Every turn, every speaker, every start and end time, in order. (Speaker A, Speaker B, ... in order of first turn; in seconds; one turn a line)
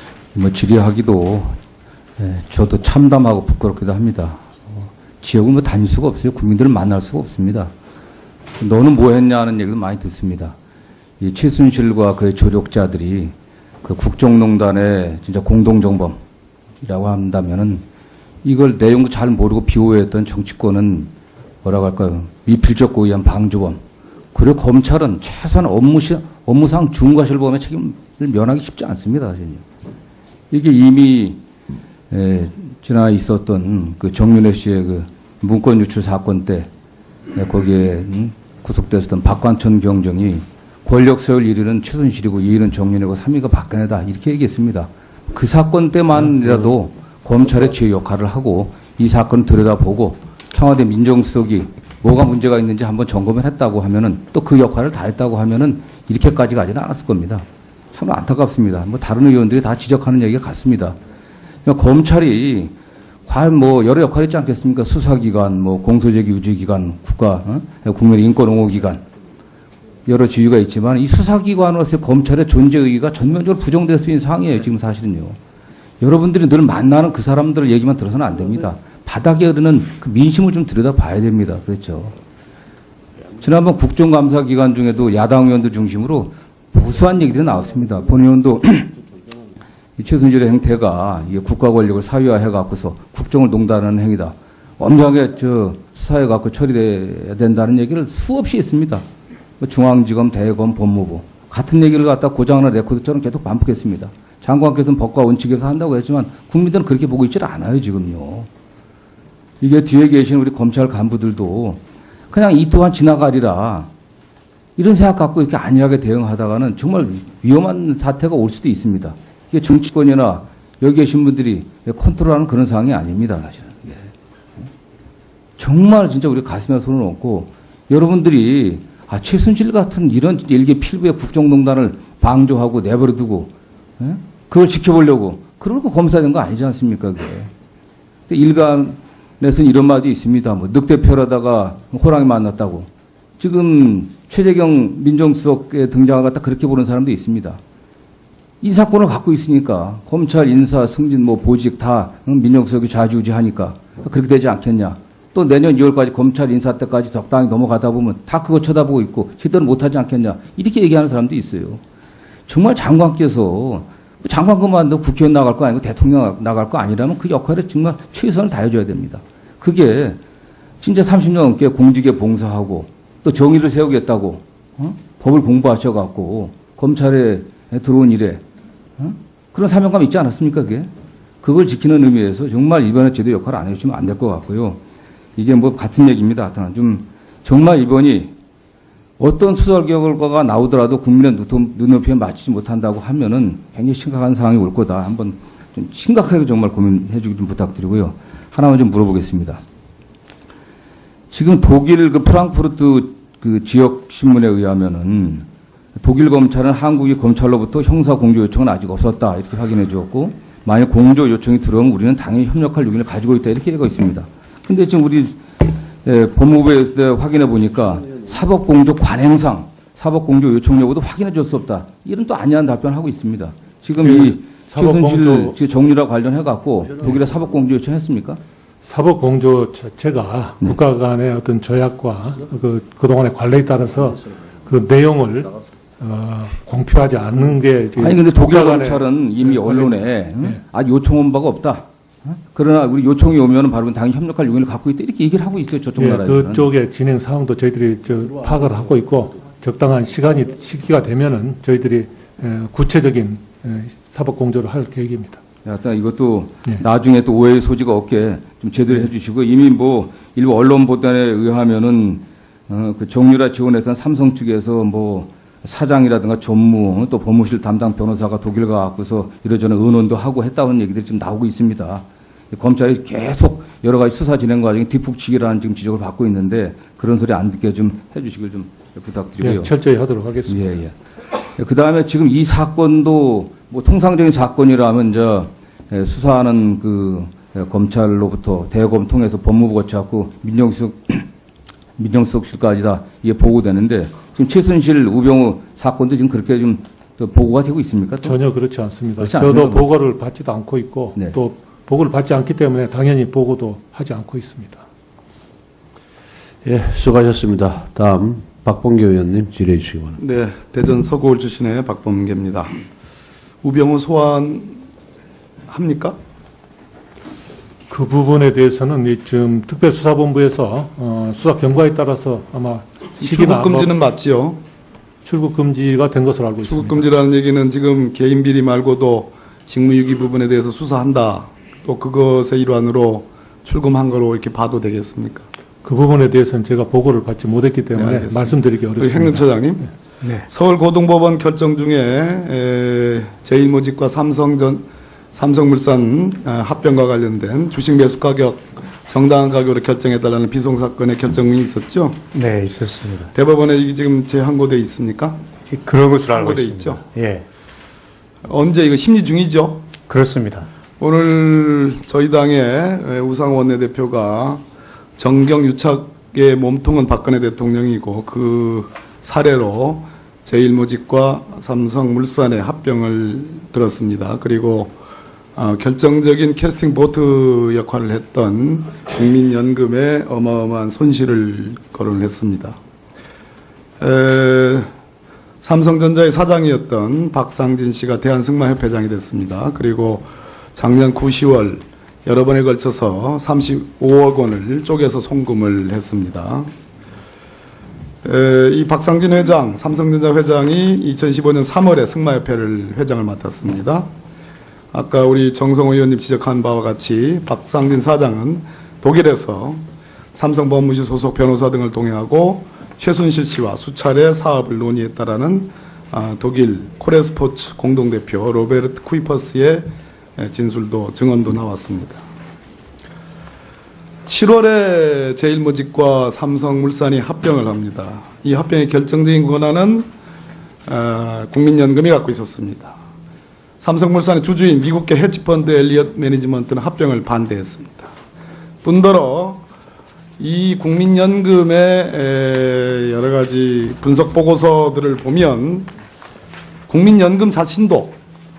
Speaker A: 0.3-1.6
Speaker A: 2.2-7.7
Speaker A: 8.6-10.5
Speaker A: 11.2-16.2
Speaker A: 16.8-17.8
Speaker A: 18.4-21.1
Speaker A: 21.6-23.8
Speaker A: 24.3-29.6
Speaker A: 30.5-31.4
Speaker A: 32.1-36.7
Speaker A: 37.3-61.0
Speaker A: 61.6-62.7
Speaker A: 63.3-69.0
Speaker A: 70.1-75.4
Speaker A: 76.0-82.1
Speaker A: 83.4-88.9
Speaker A: 90.0-99.0
Speaker A: 99.6-108.5
Speaker A: 109.6-111.8
Speaker A: 112.3-113.9
Speaker A: 114.8-124.1
Speaker A: 125.6-137.5
Speaker A: 138.3-142.9
Speaker A: 143.4-147.6
Speaker A: 148.6-161.8
Speaker A: 162.5-170.2
Speaker A: 170.8-178.4
Speaker A: 179.0-180.9
Speaker A: 181.4-184.8
Speaker A: 185.4-188.3
Speaker A: 189.2-199.6
Speaker A: 201.3-205.4
Speaker A: 206.0-228.4
Speaker B: 224.0-225.5
Speaker B: 228.8-239.9
Speaker A: 238.0-246.7
Speaker B: 246.0-255.4
Speaker A: 255.6-279.7
Speaker B: 279.4-280.6
Speaker A: 280.5-280.9
Speaker A: 281.5-291.3
Speaker A: 292.0-298.4
Speaker B: 298.2-304.8
Speaker A: 299.2-299.9
Speaker C: 306.6-310.2
Speaker D: 310.2-312.8
Speaker D: 313.6-314.8
Speaker D: 315.7-316.2
Speaker B: 317.9-323.9
Speaker D: 323.2-324.6
Speaker B: 325.2-327.1
Speaker D: 326.6-335.5
Speaker B: 335.8-339.7
Speaker D: 337.9-339.9
Speaker D: 340.4-352.2
Speaker E: 352.3-353.3
Speaker D: 353.3-355.4
Speaker E: 355.7-357.4
Speaker D: 356.3-357.1
Speaker D: 358.4-359.9
Speaker E: 360.0-360.7
Speaker D: 361.0-364.6
Speaker D: 365.2-374.9
Speaker D: 375.6-382.8
Speaker D: 384.0-384.9
Speaker D: 385.6-396.7
Speaker D: 398.2-404.1
Speaker D: 404.9-409.8
Speaker D: 410.3-422.2
Speaker D: 424.2-430.1
Speaker D: 430.9-433.0
Speaker D: 433.8-438.1
Speaker D: 438.8-439.6
Speaker D: 440.4-445.9
Speaker D: 446.9-448.2